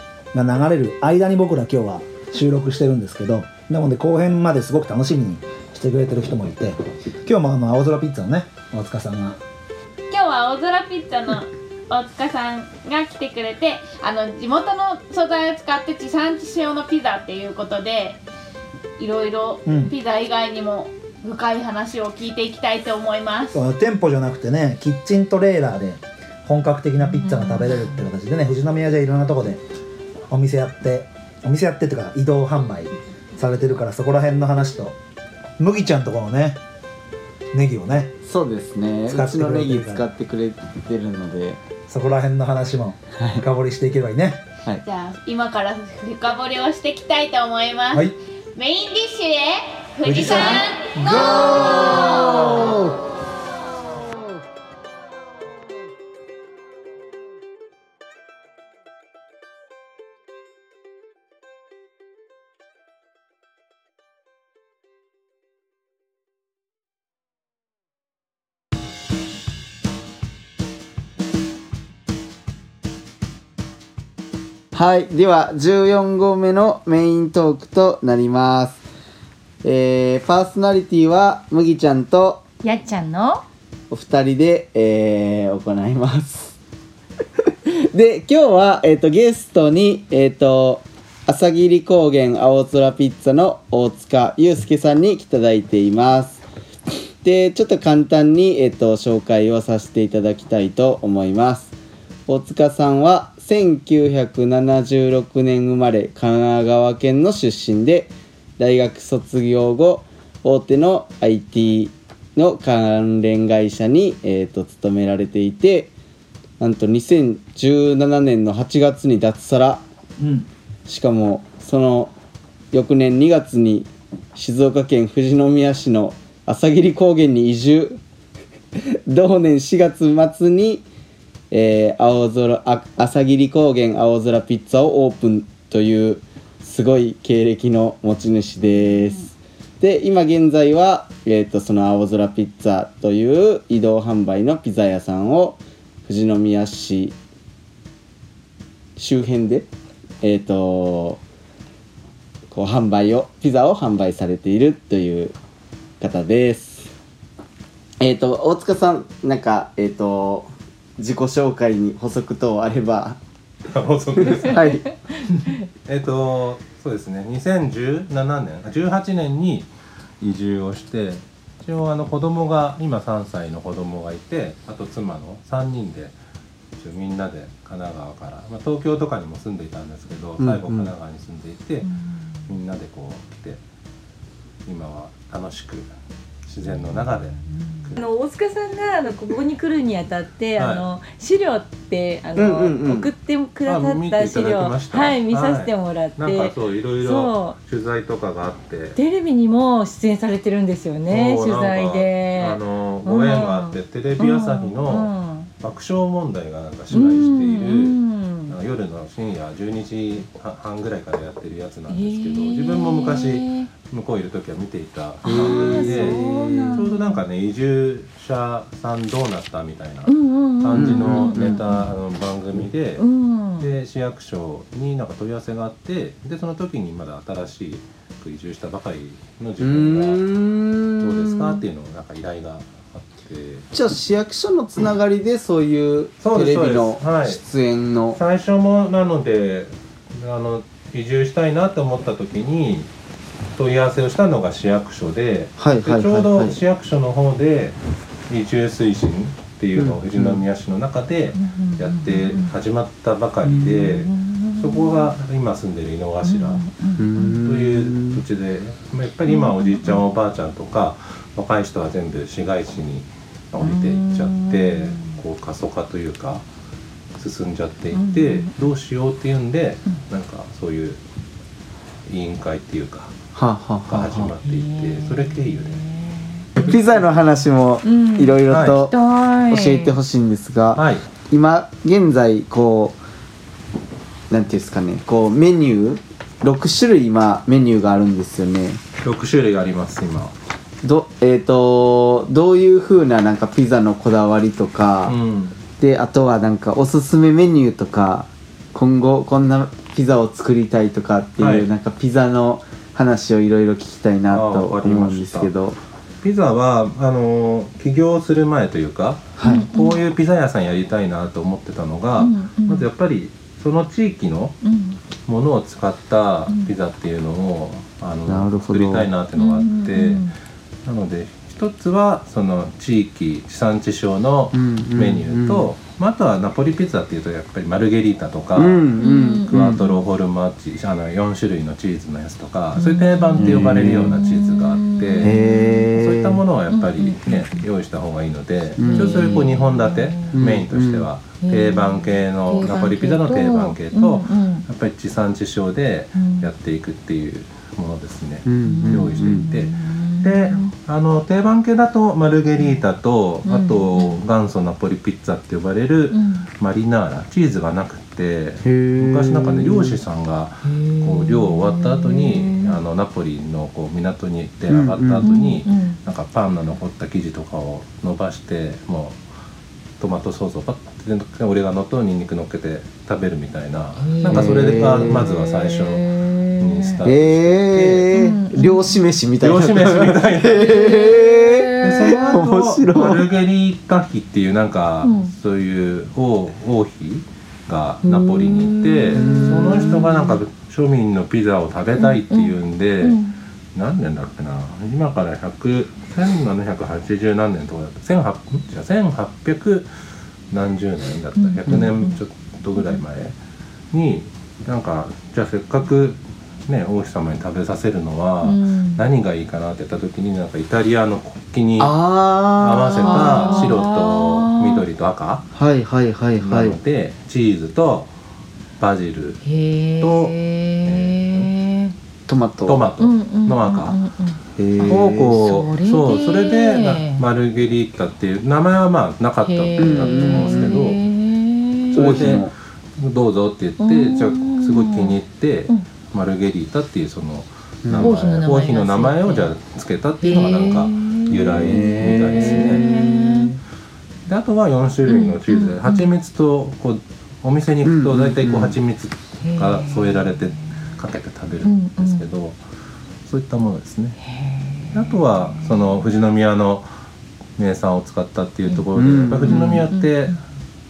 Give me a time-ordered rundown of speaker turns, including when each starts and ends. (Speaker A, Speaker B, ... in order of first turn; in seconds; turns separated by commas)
Speaker A: 0.3-9.4, Speaker B: 10.1-18.2, Speaker B: 19.0-23.6, Speaker A: 19.6-19.9, Speaker A: 23.5-29.6, Speaker C: 27.0-28.0, Speaker A: 30.3-35.0, Speaker A: 35.6-36.6, Speaker A: 37.5-38.1, Speaker D: 38.2-41.6, Speaker A: 39.1-40.1, Speaker A: 41.9-44.4, Speaker D: 43.2-43.4, Speaker B: 44.8-52.7, Speaker A: 47.9-48.2, Speaker A: 50.0-52.3, Speaker D: 51.2-53.0, Speaker D: 74.7-78.8, Speaker D: 79.6-82.4, Speaker C: 82.6-83.4, Speaker D: 83.9-86.5, Speaker D: 87.7-96.4, Speaker D: 97.2-101.7, Speaker D: 102.3-115.9, Speaker D: 116.6-119.8, Speaker A: 120.2-120.5, Speaker D: 120.9-122.1, Speaker D: 122.7-128.0, Speaker D: 128.8-130.8, Speaker D: 131.5-147.1, Speaker D: 148.9-149.7, Speaker D: 150.2-151.2, Speaker D: 152.5-155.3, Speaker D: 156.0-156.9, Speaker D: 158.0-163.2, Speaker E: 163.7-164.7, Speaker D: 164.2-164.8, Speaker C: 164.5-165.6, Speaker E: 165.3-169.7, Speaker E: 170.2-176.1, Speaker E: 176.8-181.9, Speaker D: 180.4-180.9, Speaker C: 181.8-182.4, Speaker E: 182.4-183.6, Speaker E: 184.7-185.9, Speaker E: 186.4-188.0, Speaker C: 187.5-197.6, Speaker E: 190.6-190.8, Speaker D: 192.3-193.1, Speaker E: 193.7-199.0, Speaker C: 198.9-205.5, Speaker E: 201.1-223.1, Speaker C: 206.9-208.6, Speaker C: 211.9-213.7, Speaker C: 215.2-217.2, Speaker D: 215.2-216.8, Speaker C: 220.1-221.9, Speaker D: 220.7-221.6, Speaker C: 223.0-223.7, Speaker E: 223.6-230.3, Speaker D: 229.6-231.6, Speaker E: 231.0-233.7, Speaker D: 233.7-238.2, Speaker E: 236.2-237.4, Speaker E: 238.1-242.9, Speaker E: 243.5-247.8, Speaker D: 245.6-246.6, Speaker E: 248.3-256.6, Speaker D: 249.8-250.4, Speaker C: 251.3-252.5, Speaker D: 253.4-253.8, Speaker C: 253.9-255.1, Speaker C: 256.2-257.4, Speaker D: 257.0-258.2, Speaker E: 257.2-266.4, Speaker C: 259.3-260.0, Speaker C: 263.6-265.1, Speaker E: 267.1-271.0, Speaker C: 267.9-268.6, Speaker E: 272.1-273.1, Speaker D: 273.3-274.3, Speaker E: 273.9-275.8, Speaker C: 274.4-277.0, Speaker E: 276.6-276.8, Speaker D: 276.6-278.9, Speaker C: 277.8-280.0, Speaker E: 278.5-278.8, Speaker D: 279.5-283.0, Speaker E: 280.7-281.1, Speaker D: 284.3-288.8, Speaker E: 289.0-290.3, Speaker D: 290.8-295.2, Speaker E: 295.0-295.5, Speaker D: 295.8-305.8, Speaker E: 301.4-301.7, Speaker E: 304.3-305.5, Speaker E: 306.2-314.6, Speaker D: 309.4-309.7, Speaker C: 309.4-310.0, Speaker C: 312.2-312.9, Speaker C: 314.6-315.0, Speaker E: 315.2-320.3, Speaker D: 318.3-319.1, Speaker C: 319.4-320.3, Speaker E: 320.8-328.9, Speaker D: 324.5-325.7, Speaker D: 328.6-329.8, Speaker C: 329.0-330.0, Speaker E: 329.5-335.4, Speaker C: 332.8-335.9, Speaker D: 333.4-334.2, Speaker D: 335.2-336.4, Speaker E: 335.9-369.2, Speaker C: 336.7-337.6, Speaker D: 338.8-339.5, Speaker C: 338.9-340.4, Speaker D: 340.3-341.1, Speaker C: 341.4-344.6, Speaker C: 346.2-346.5, Speaker D: 348.4-349.4, Speaker C: 348.6-350.7, Speaker C: 353.4-354.2, Speaker C: 356.1-356.5, Speaker D: 358.6-360.0, Speaker C: 360.6-362.8, Speaker D: 364.7-365.2, Speaker C: 365.2-366.0, Speaker E: 370.0-378.1, Speaker C: 374.0-377.0, Speaker D: 374.3-375.3, Speaker D: 377.0-383.2, Speaker C: 378.1-379.0, Speaker E: 379.4-381.1, Speaker C: 380.6-382.4, Speaker E: 381.8-393.2, Speaker C: 385.0-385.3, Speaker C: 388.0-390.4, Speaker D: 389.1-390.1, Speaker C: 392.0-393.4, Speaker E: 393.7-399.9, Speaker E: 400.5-403.3, Speaker C: 401.4-402.2, Speaker D: 401.6-401.9, Speaker E: 403.9-411.9, Speaker C: 408.4-409.0, Speaker D: 411.8-413.8, Speaker E: 412.5-415.4, Speaker C: 413.0-414.8, Speaker D: 415.5-416.8, Speaker E: 416.4-418.1, Speaker E: 418.8-419.4, Speaker C: 419.4-421.9, Speaker E: 420.0-421.5, Speaker D: 422.3-422.8, Speaker E: 422.6-424.0, Speaker C: 423.0-427.2, Speaker D: 424.6-425.4, Speaker E: 424.8-431.0, Speaker C: 429.4-432.4, Speaker D: 429.8-430.8, Speaker D: 431.9-432.5, Speaker E: 431.9-442.9, Speaker C: 433.8-435.1, Speaker D: 437.8-438.1, Speaker C: 438.0-439.5, Speaker C: 440.2-443.6, Speaker D: 441.3-443.6, Speaker E: 444.3-452.6, Speaker C: 445.1-446.1, Speaker D: 447.8-448.8, Speaker C: 449.4-450.4, Speaker C: 451.6-452.2, Speaker E: 453.2-454.2, Speaker C: 454.2-456.0, Speaker E: 454.9-456.9, Speaker E: 457.6-460.4, Speaker D: 458.9-459.9, Speaker C: 459.4-460.4